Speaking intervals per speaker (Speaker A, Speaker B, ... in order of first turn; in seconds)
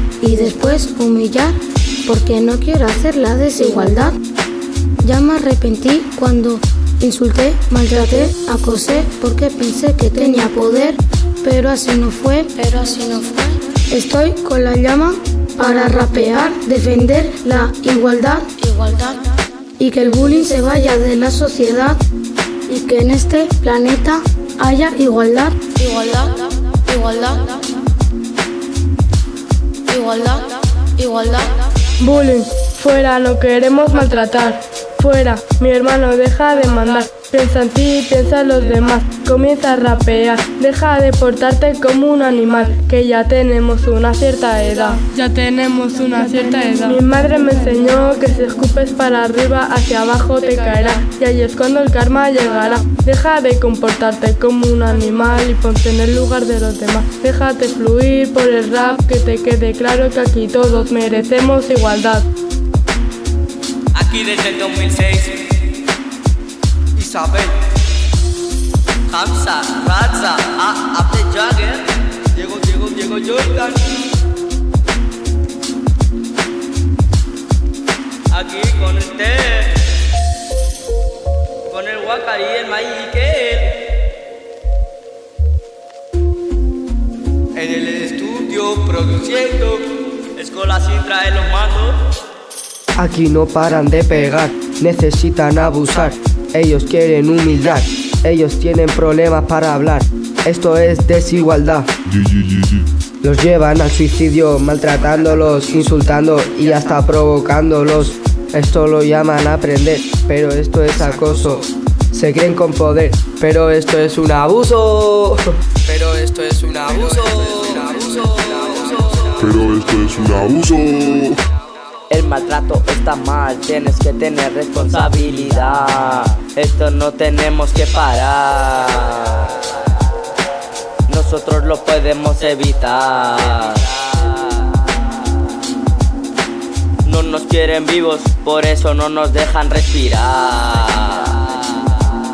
Speaker A: 0.2-4.2, 5.0-19.2, 19.8-22.0, 22.7-27.6, 29.9-31.6
Speaker B: 32.0-62.2
Speaker C: 63.9-65.4, 67.0-67.5, 69.1-73.9, 78.3-79.8, 81.7-83.9, 87.6-89.8, 90.3-92.0, 117.3-117.9, 122.1-129.6, 131.1-134.5, 137.0-141.6
Speaker D: 93.0-101.9, 103.2-119.4
Speaker E: 102.1-102.8, 119.4-121.4